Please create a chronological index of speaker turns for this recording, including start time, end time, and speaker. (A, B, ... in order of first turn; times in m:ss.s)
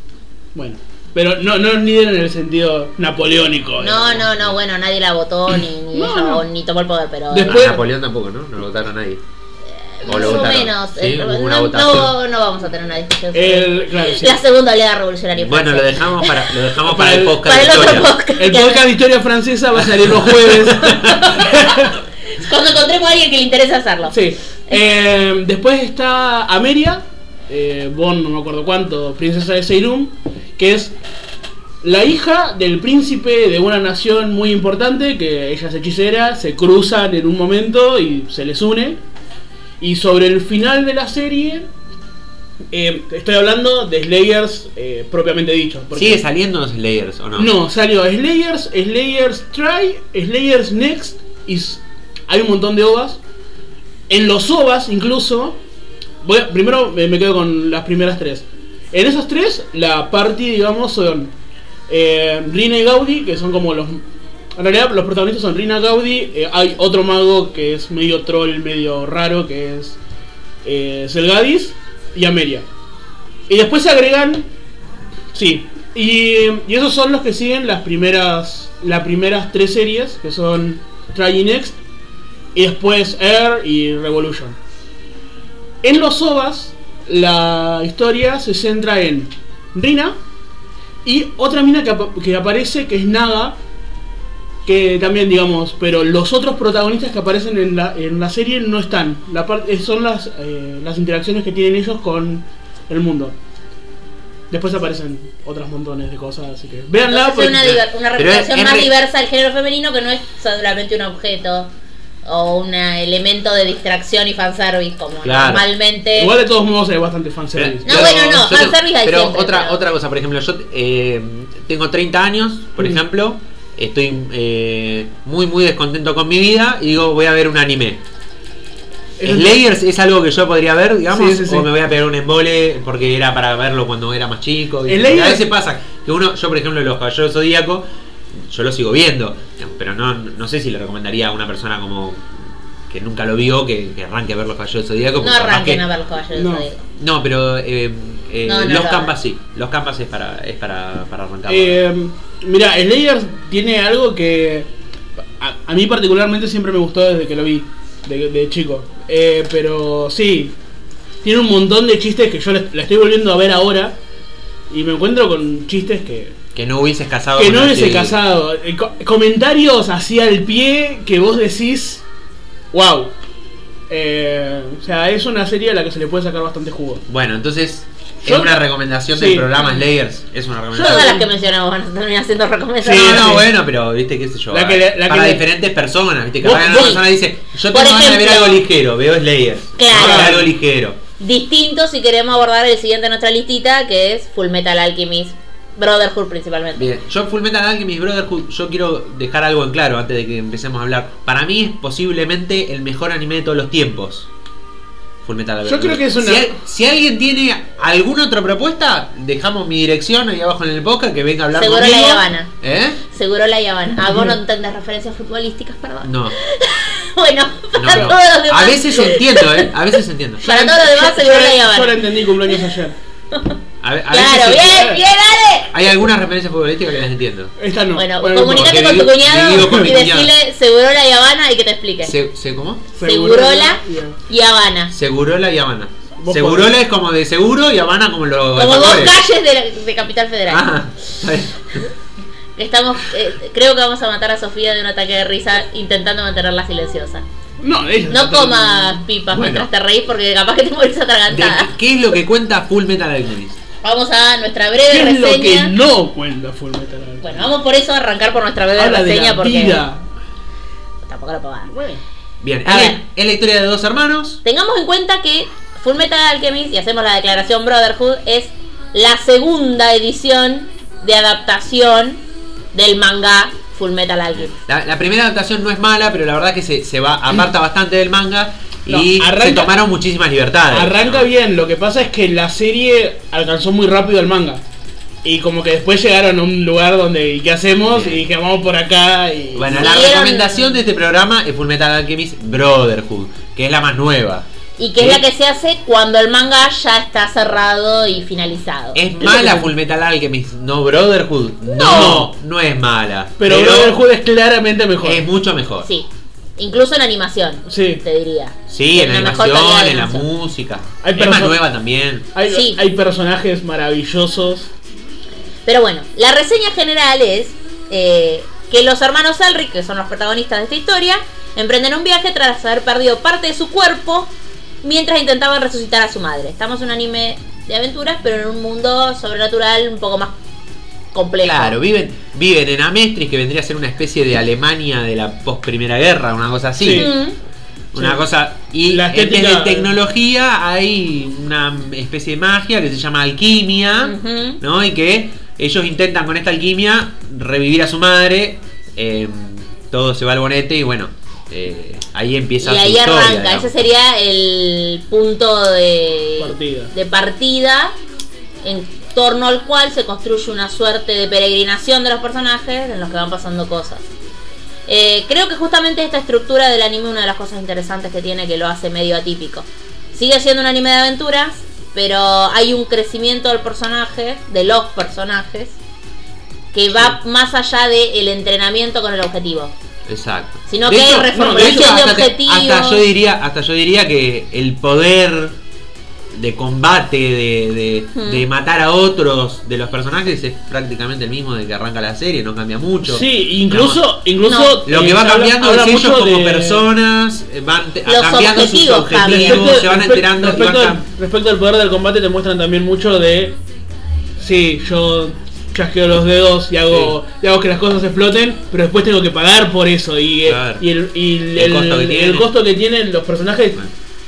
0:00.5-0:04.3 A
0:03.8-0:07.8 B
0:05.9-0:06.4 A
0:07.3-0:07.8 A
0:07.4-0:09.2 C
0:09.7-0:16.4 B
0:10.0-0:12.1 C
0:13.3-0:14.4 A
0:15.4-0:18.1 C
0:16.8-0:17.6 A
0:17.4-0:18.8 B
0:18.4-0:21.9 A
0:20.0-0:21.2 C
0:21.0-0:24.1 B
0:24.1-0:30.9 A
0:31.8-0:39.0 A
0:39.8-0:41.7 A
0:42.7-0:46.2 A
0:45.9-0:47.5 C
0:47.4-0:53.2 A
0:54.1-0:55.6 A
0:56.2-1:01.3 A
1:01.9-1:04.0 A
1:04.6-1:10.0 A
1:10.6-1:12.6 A
1:13.5-1:14.5 A
1:15.3-1:21.8 A
1:22.5-1:24.6 A
1:25.8-1:30.2 A
1:31.0-1:33.6 A
1:34.6-1:43.4 A
1:44.5-1:47.8 A
1:47.1-1:51.7 B
1:47.7-1:48.9 C
1:52.2-1:56.3 B
1:55.2-1:55.6 C
1:56.1-1:58.3 A
1:57.6-2:08.0 C
1:57.8-1:59.8 B
2:09.2-2:09.6 A
2:09.2-2:25.8 C
2:11.1-2:11.7 A
2:14.9-2:15.4 A
2:25.2-2:26.9 B
2:26.3-2:26.7 A
2:27.0-2:31.8 C
2:28.4-2:29.1 B
2:31.5-2:34.7 A
2:35.4-2:40.5 A
2:41.2-2:44.0 A
2:44.7-2:46.4 A
2:46.5-2:48.2 C
2:47.4-2:52.0 A
2:52.7-2:53.1 A
2:53.9-2:57.0 A
2:57.1-3:01.2 C
2:58.2-2:59.5 A
3:00.7-3:03.3 B
3:00.8-3:01.3 A
3:02.8-3:03.5 A
3:02.9-3:11.0 C
3:04.5-3:05.4 A
3:06.4-3:07.0 A
3:06.6-3:07.0 B
3:07.7-3:08.6 B
3:09.8-3:10.4 B
3:09.9-3:10.5 A
3:11.2-3:16.9 B
3:16.8-3:24.3 C
3:25.2-3:33.0 C
3:25.6-3:26.5 A
3:31.5-3:32.5 B
3:33.1-3:39.7 B
3:34.0-3:34.3 A
3:36.0-3:36.4 C
3:37.8-3:40.4 C
3:40.4-3:42.6 B
3:40.4-3:43.0 A
3:43.3-3:43.6 B
3:43.8-3:45.0 C
3:44.1-3:45.8 B
3:44.7-3:45.0 A
3:45.7-3:47.5 C
3:47.6-3:49.9 A
3:48.0-3:52.1 B
3:48.4-3:50.3 C
3:52.0-3:52.9 C
3:53.0-3:54.2 A
3:53.0-3:54.9 B
3:54.9-3:59.2 C
3:56.2-3:56.7 A
3:58.5-4:00.7 B
4:00.5-4:01.9 C
4:02.6-4:07.2 B
4:07.6-4:09.0 A
4:08.1-4:11.7 B
4:09.3-4:09.7 C
4:11.3-4:13.6 C
4:13.8-4:15.7 B
4:14.9-4:17.5 A
4:17.2-4:19.8 B
4:18.8-4:20.0 A
4:21.0-4:21.7 B
4:21.7-4:22.0 A
4:22.4-4:24.4 C
4:22.6-4:23.0 B
4:24.4-4:32.2 B
4:32.7-4:34.5 B
4:34.5-4:41.3 C
4:38.9-4:39.8 A
4:40.7-4:44.6 A
4:45.2-4:49.9 A
4:47.9-4:48.2 C
4:49.5-4:54.5 C
4:49.7-4:50.8 B
4:54.8-4:59.0 B
4:55.0-4:55.2 C
4:59.0-5:04.0 C
4:59.2-4:59.7 A
5:01.7-5:02.2 B
5:01.8-5:02.3 A
5:03.4-5:05.2 A
5:05.0-5:05.9 C
5:05.8-5:10.3 B
5:07.7-5:08.0 A
5:08.7-5:12.3 C
5:11.0-5:11.6 A
5:12.3-5:14.7 A
5:12.5-5:12.8 B
5:15.7-5:24.3 B
5:24.8-5:30.3 B
5:31.1-5:31.8 B
5:31.4-5:37.1 C
5:36.8-5:37.1 A
5:36.9-5:37.4 B
5:37.9-5:53.7 C
5:38.0-5:38.2 A
5:38.8-5:39.9 A
5:44.0-5:44.6 B
5:52.6-5:58.0 B
5:56.4-5:56.9 A
5:58.6-6:04.1 B
6:04.9-6:15.8 B
6:16.7-6:19.7 B
6:20.1-6:25.6 C
6:20.7-6:23.0 B
6:21.3-6:22.0 A
6:26.3-6:34.0 C
6:28.1-6:28.5 B
6:33.0-6:36.9 A
6:34.4-6:34.8 B
6:34.8-6:41.0 C
6:38.0-6:39.8 B
6:39.2-6:43.6 A
6:44.4-6:53.9 A
6:46.9-6:47.2 C
6:50.4-6:50.8 C
6:51.6-6:52.5 C